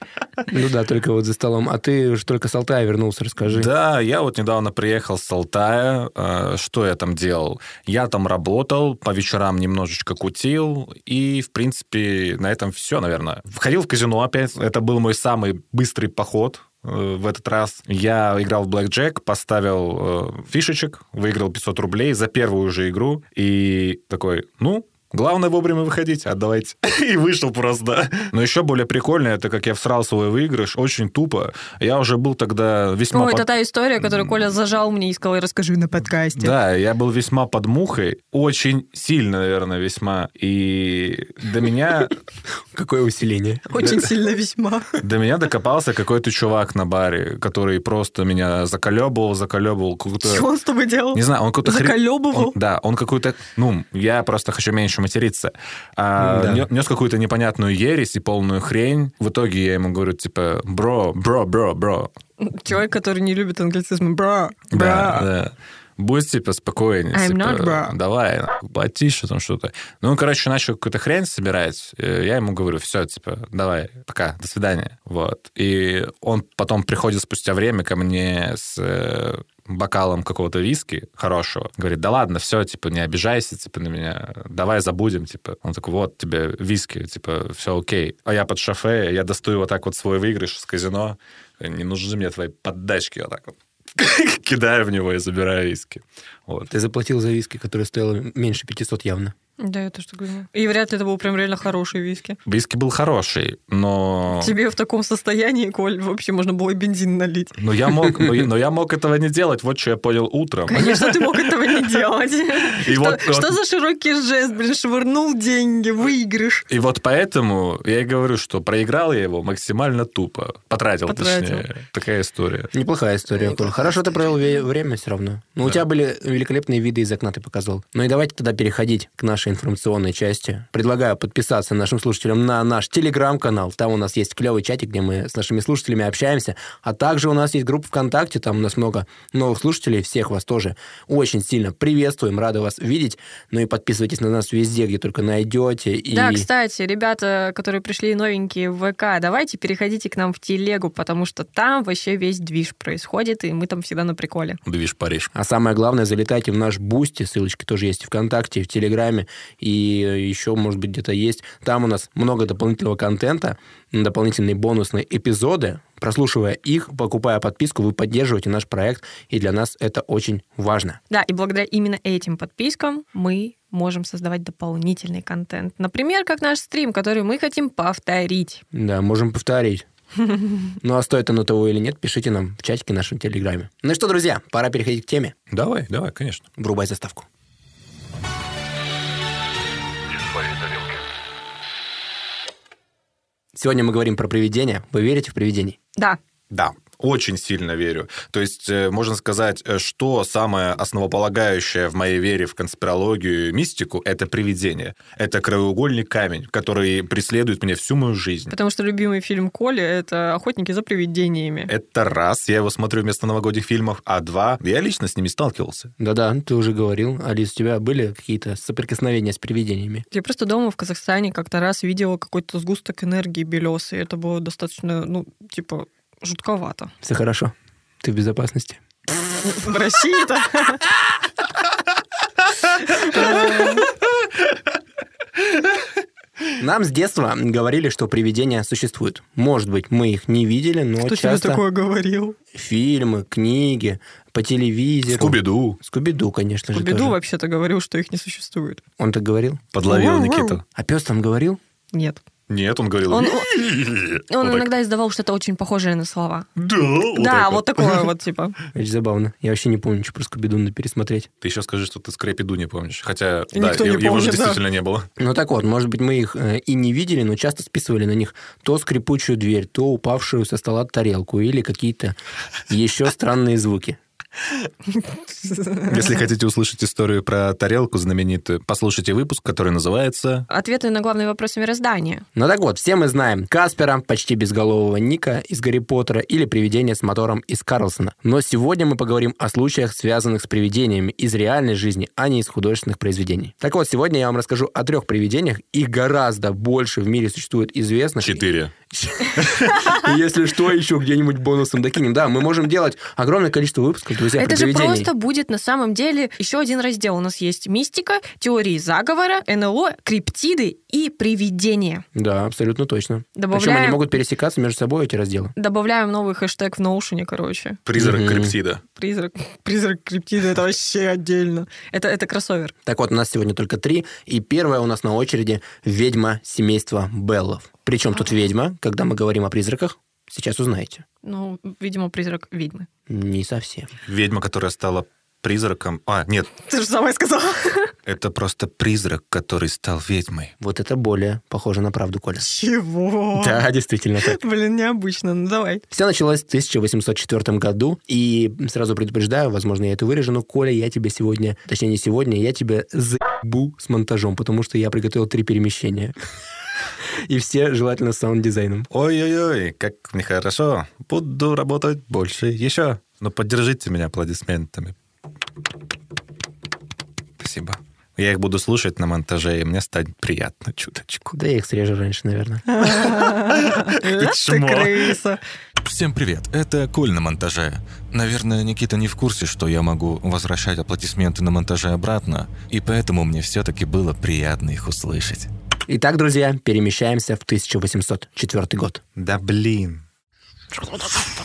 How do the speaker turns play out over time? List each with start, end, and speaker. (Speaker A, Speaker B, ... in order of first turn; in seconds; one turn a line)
Speaker A: 0.5-3.7
Speaker B: 3.4-33.5
Speaker C: 33.1-36.5
Speaker B: 36.4-42.1
Speaker A: 42.7-44.0
Speaker C: 43.7-44.9
Speaker B: 45.0-50.5
Speaker C: 50.2-52.5
Speaker B: 51.1-62.1
Speaker A: 56.2-56.7
Speaker C: 62.4-65.3
Speaker B: 64.7-96.7
Speaker C: 67.1-67.9
Speaker A: 96.7-99.3
Speaker C: 99.6-102.4
Speaker B: 102.5-104.5
Speaker C: 104.3-107.5
Speaker B: 107.6-111.5
Speaker C: 110.7-116.6
Speaker B: 112.7-113.5
Speaker B: 116.7-122.7
Speaker C: 121.1-121.7
Speaker A: 122.7-146.5
Speaker C: 146.1-154.6
Speaker B: 154.6-155.3
Speaker A: 155.3-171.0
Speaker C: 171.1-178.6
Speaker A: 178.7-179.8
Speaker A: 180.8-185.3
Speaker B: 185.5-186.4
Speaker A: 186.6-187.3
Speaker B: 190.1-191.0
Speaker A: 193.5-195.8
Speaker B: 196.5-208.5
Speaker C: 208.5-211.7
Speaker B: 211.7-215.9
Speaker A: 216.0-220.0
Speaker C: 220.1-226.9
Speaker A: 227.0-228.8
Speaker C: 229.4-230.8
Speaker C: 232.7-233.9
Speaker A: 236.6-241.6
Speaker C: 241.0-242.4
Speaker A: 242.5-247.2
Speaker B: 245.1-245.8
Speaker C: 246.7-248.8
Speaker A: 249.0-249.6
Speaker B: 249.7-250.6
Speaker C: 249.8-250.6
Speaker A: 250.7-251.6
Speaker C: 251.9-252.2
Speaker B: 252.5-254.7
Speaker C: 253.1-253.7
Speaker C: 254.3-256.5
Speaker B: 256.6-258.1
Speaker C: 257.1-258.5
Speaker A: 258.7-261.3
Speaker B: 261.4-265.1
Speaker C: 263.5-264.6
Speaker A: 265.2-272.1
Speaker A: 272.7-274.0
Speaker C: 275.0-276.1
Speaker B: 275.9-280.5
Speaker C: 280.5-282.2
Speaker A: 282.3-305.1
Speaker B: 298.2-298.7
Speaker B: 299.4-299.7
Speaker C: 304.4-312.0
Speaker A: 312.1-315.5
Speaker C: 313.4-314.0
Speaker C: 315.6-317.8
Speaker B: 317.9-318.8
Speaker A: 318.0-318.6
Speaker C: 318.9-322.7
Speaker A: 322.8-331.0
Speaker C: 331.2-332.9
Speaker A: 333.1-333.9
Speaker B: 334.1-336.5
Speaker C: 336.6-337.9
Speaker B: 338.1-340.5
Speaker A: 340.6-342.5
Speaker C: 342.4-343.6
Speaker A: 343.3-344.4
Speaker C: 344.2-345.8
Speaker A: 345.9-356.1
Speaker A: 357.2-358.9
Speaker B: 358.9-364.9
Speaker B: 367.4-371.3
Speaker A: 371.3-372.9
Speaker C: 372.7-375.4
Speaker B: 373.1-375.1
Speaker D: 375.8-385.5
Speaker A: 385.9-389.0
Speaker B: 389.2-390.0